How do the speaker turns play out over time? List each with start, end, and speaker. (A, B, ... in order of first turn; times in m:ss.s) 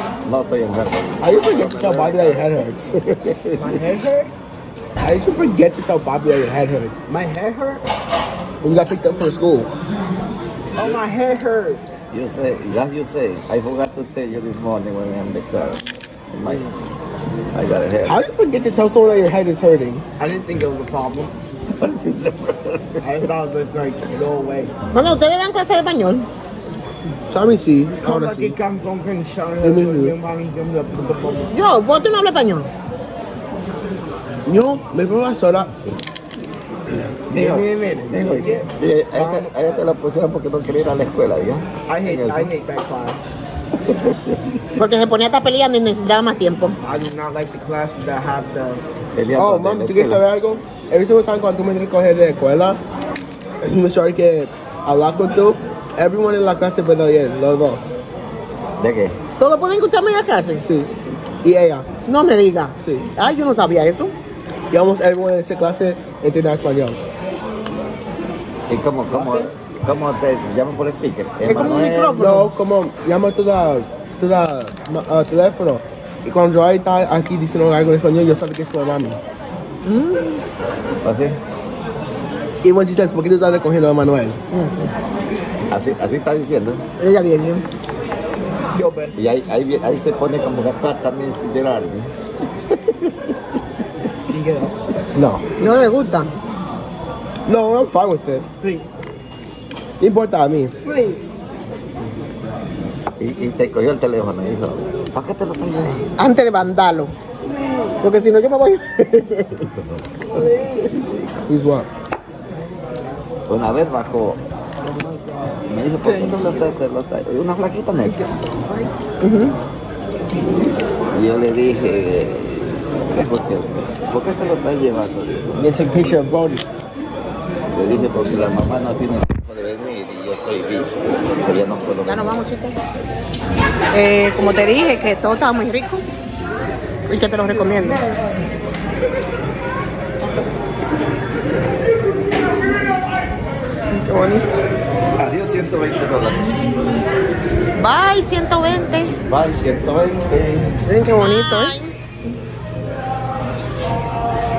0:00.2-0:03.8 A
0:01.2-0:02.9 B
0:03.6-0:04.3 C
0:05.0-0:07.0 B
0:07.1-0:07.8 C
0:08.6-0:09.7 B
0:10.8-0:11.8 C
0:12.1-0:16.8 A
0:17.5-0:18.2 A
0:18.0-0:20.0 B
0:20.2-0:21.3 C
0:21.8-0:23.3 A
0:23.0-0:24.7 C
0:24.9-0:26.3 D
0:27.3-0:28.5 B
0:28.0-0:31.5 C
0:29.6-0:30.1 B
0:31.5-0:32.7 D
0:34.4-0:35.7 B
0:37.3-0:42.5 A
0:37.3-0:39.9 C
0:41.9-0:43.3 C
0:43.8-0:44.4 A
0:44.8-0:46.8 D
0:46.8-0:48.8 C
0:49.2-0:50.2 A
0:49.3-0:52.8 B
0:53.6-0:57.8 B
0:58.8-0:59.2 A
0:59.4-1:00.6 D
1:00.6-1:01.9 B
1:02.0-1:04.1 D
1:02.8-1:03.1 B
1:04.7-1:07.0 B
1:08.7-1:12.2 A
1:11.4-1:12.5 D
1:12.2-1:19.2 B
1:19.8-1:20.4 D
1:21.0-1:21.4 A
1:22.6-1:24.4 B
1:24.5-1:24.9 D
1:25.7-1:26.8 A
1:27.0-1:27.6 D
1:28.7-1:29.1 C
1:29.2-1:32.1 A
1:32.9-1:33.4 A
1:34.3-1:34.8 C
1:35.1-1:35.5 B
1:35.6-1:36.3 D
1:37.5-1:38.5 B
1:38.6-1:38.9 C
1:40.0-1:40.7 B
1:40.8-1:41.2 C
1:43.2-1:46.1 A
1:46.2-1:47.1 D
1:47.4-1:48.0 C
1:48.0-1:49.7 D
1:50.3-1:51.1 C
1:51.5-1:51.9 B
1:53.5-1:54.4 A
1:55.7-1:58.4 A
1:59.2-1:59.6 D
2:01.1-2:05.6 A
2:05.6-2:06.6 C
2:06.0-2:06.6 B
2:07.7-2:12.4 A
2:12.0-2:12.8 D
2:13.9-2:16.0 D
2:17.1-2:18.0 D
2:23.9-2:24.6 D
2:25.2-2:26.8 A
2:27.7-2:29.1 D
2:29.3-2:30.8 A
2:30.8-2:31.9 D